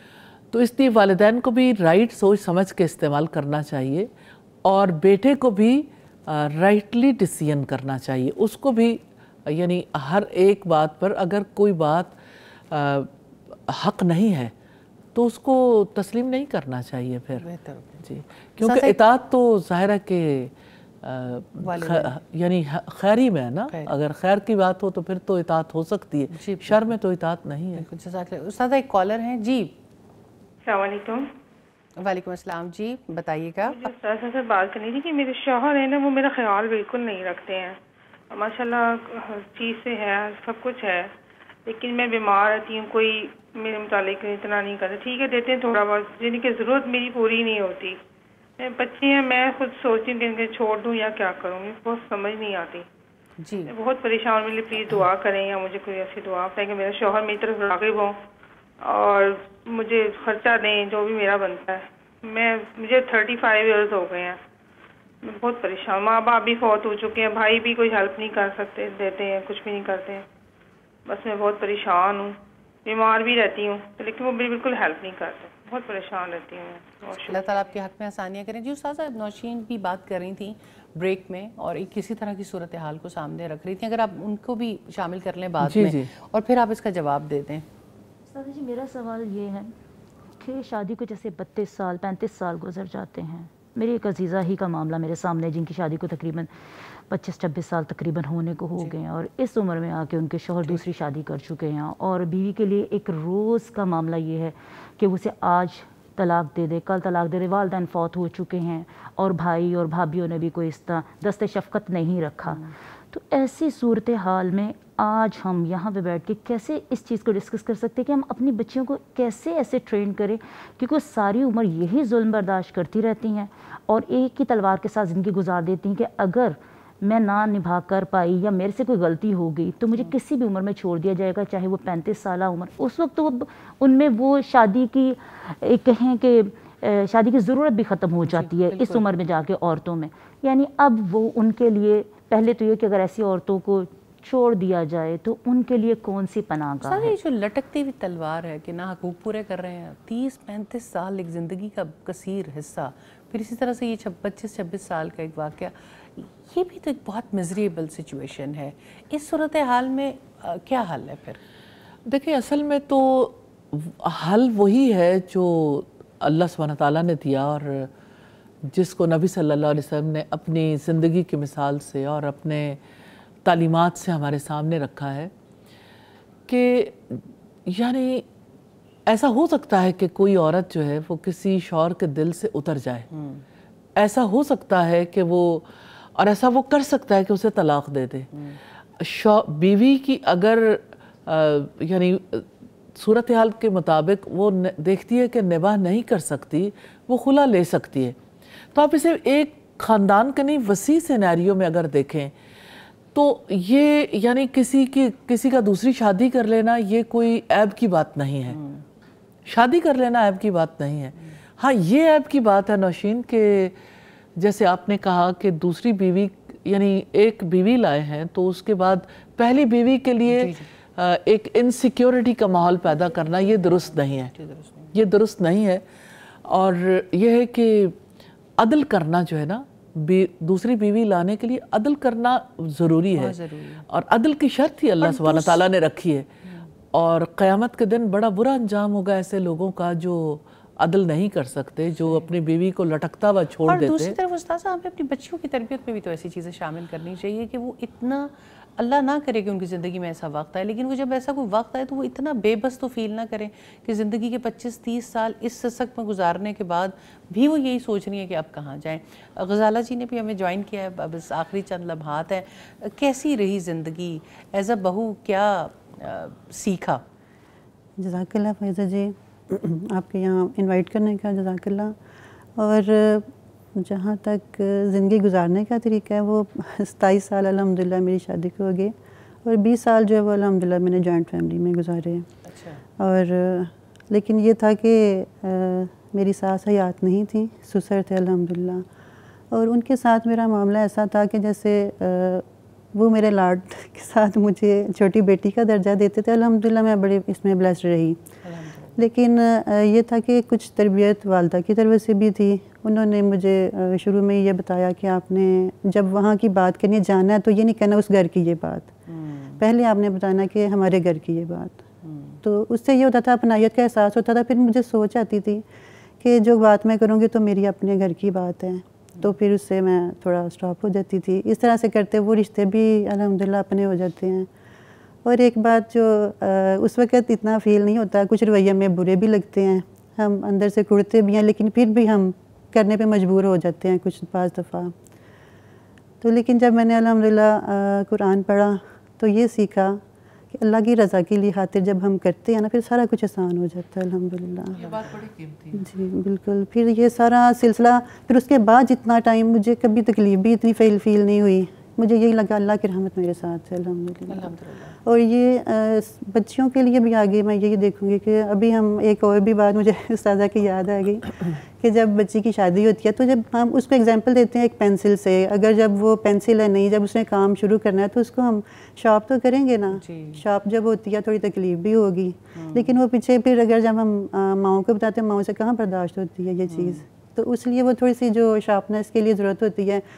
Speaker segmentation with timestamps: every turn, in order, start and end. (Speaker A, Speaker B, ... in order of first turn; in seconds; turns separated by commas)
Speaker A: 0.5-4.1, Speaker A: 4.7-12.2, Speaker A: 12.7-14.5, Speaker A: 15.1-17.4, Speaker B: 17.4-18.1, Speaker A: 18.0-27.8, Speaker B: 18.6-19.0, Speaker B: 21.6-22.2, Speaker B: 23.7-23.9, Speaker B: 26.3-27.0, Speaker B: 27.7-29.8, Speaker C: 30.7-31.3, Speaker B: 32.0-33.9, Speaker C: 33.6-37.8, Speaker C: 38.3-41.1, Speaker C: 41.7-48.0, Speaker C: 48.6-52.9, Speaker B: 53.4-53.7, Speaker C: 53.7-58.2, Speaker C: 58.8-64.4, Speaker C: 65.2-70.2, Speaker C: 71.1-77.7, Speaker B: 77.1-87.7, Speaker A: 85.6-86.1, Speaker D: 88.3-89.7, Speaker D: 90.4-96.5, Speaker D: 97.1-147.2, Speaker B: 100.6-100.9, Speaker B: 112.4-112.8, Speaker B: 138.2-139.1, Speaker B: 146.8-161.4, Speaker A: 162.1-167.9, Speaker A: 168.7-172.8, Speaker A: 173.4-175.3, Speaker A: 176.5-178.2, Speaker A: 179.1-183.1, Speaker B: 183.1-183.4, Speaker A: 184.0-188.3, Speaker B: 188.3-188.6, Speaker A: 189.0-198.2, Speaker A: 198.7-202.3, Speaker A: 203.1-208.6, Speaker B: 208.5-208.8, Speaker A: 209.5-213.8, Speaker A: 214.4-224.3, Speaker B: 220.2-220.7, Speaker B: 223.1-225.0, Speaker A: 224.9-225.8, Speaker A: 226.4-228.0, Speaker A: 228.6-233.3, Speaker B: 233.1-233.9, Speaker A: 233.9-236.3, Speaker B: 235.0-235.7, Speaker B: 236.5-236.7, Speaker A: 236.9-244.2, Speaker B: 242.0-242.3, Speaker B: 243.6-267.0, Speaker E: 268.0-271.9, Speaker E: 272.6-278.9, Speaker E: 279.4-282.3, Speaker B: 282.4-282.8, Speaker E: 283.0-288.9, Speaker E: 289.5-298.2, Speaker B: 298.4-299.1, Speaker E: 299.0-309.0, Speaker B: 309.1-309.6, Speaker E: 309.6-311.8, Speaker B: 312.0-312.4, Speaker E: 312.4-315.7, Speaker E: 316.2-324.5, Speaker E: 325.2-334.9, Speaker E: 336.2-340.0, Speaker E: 340.5-344.8, Speaker A: 344.7-345.9, Speaker B: 344.8-345.2, Speaker E: 345.7-380.0, Speaker B: 354.3-355.0, Speaker B: 369.9-370.4, Speaker B: 372.6-373.0, Speaker B: 376.6-377.1